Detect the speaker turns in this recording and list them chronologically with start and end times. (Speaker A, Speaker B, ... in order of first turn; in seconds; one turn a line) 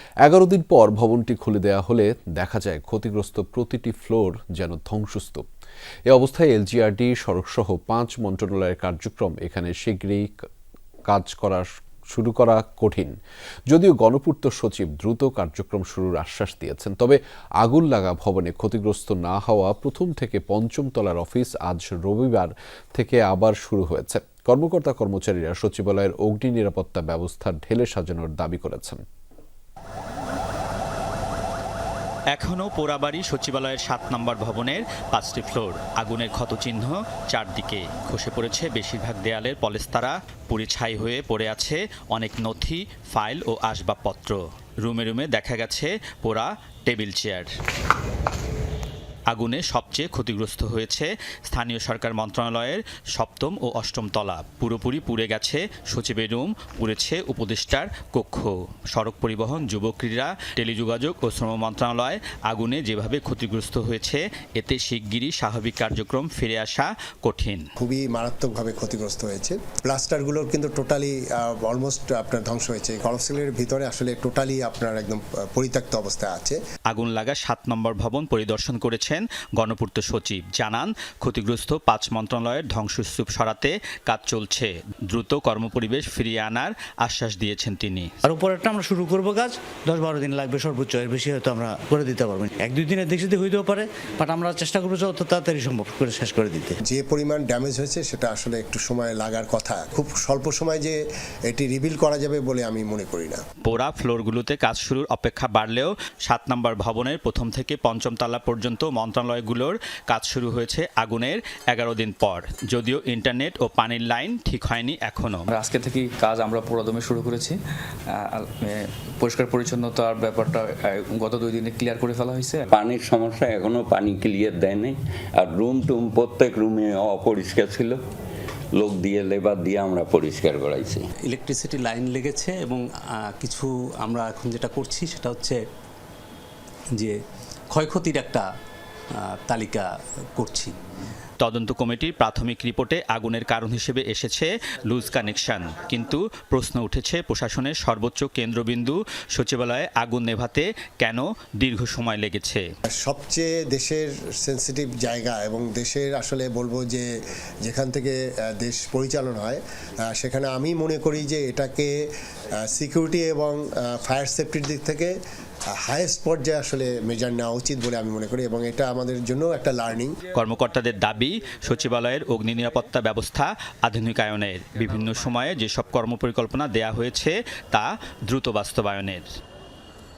Speaker A: 0.2-5.4
Speaker A: 6.1-10.4
Speaker A: 11.1-13.2
Speaker A: 13.7-29.0
Speaker B: 32.3-47.5
Speaker B: 49.3-67.7
Speaker C: 67.8-76.6
Speaker B: 76.9-88.1
Speaker D: 88.2-96.8
Speaker C: 96.8-103.4
Speaker B: 103.6-115.4
Speaker E: 115.5-117.6
Speaker E: 118.2-122.6
Speaker F: 122.7-128.0
Speaker F: 128.8-131.0
Speaker G: 131.2-135.6
Speaker G: 137.7-138.5
Speaker G: 139.1-140.7
Speaker B: 141.4-152.6
Speaker C: 153.0-157.1
Speaker C: 157.6-161.9
Speaker C: 162.6-165.1
Speaker C: 165.8-170.2
Speaker B: 170.3-179.3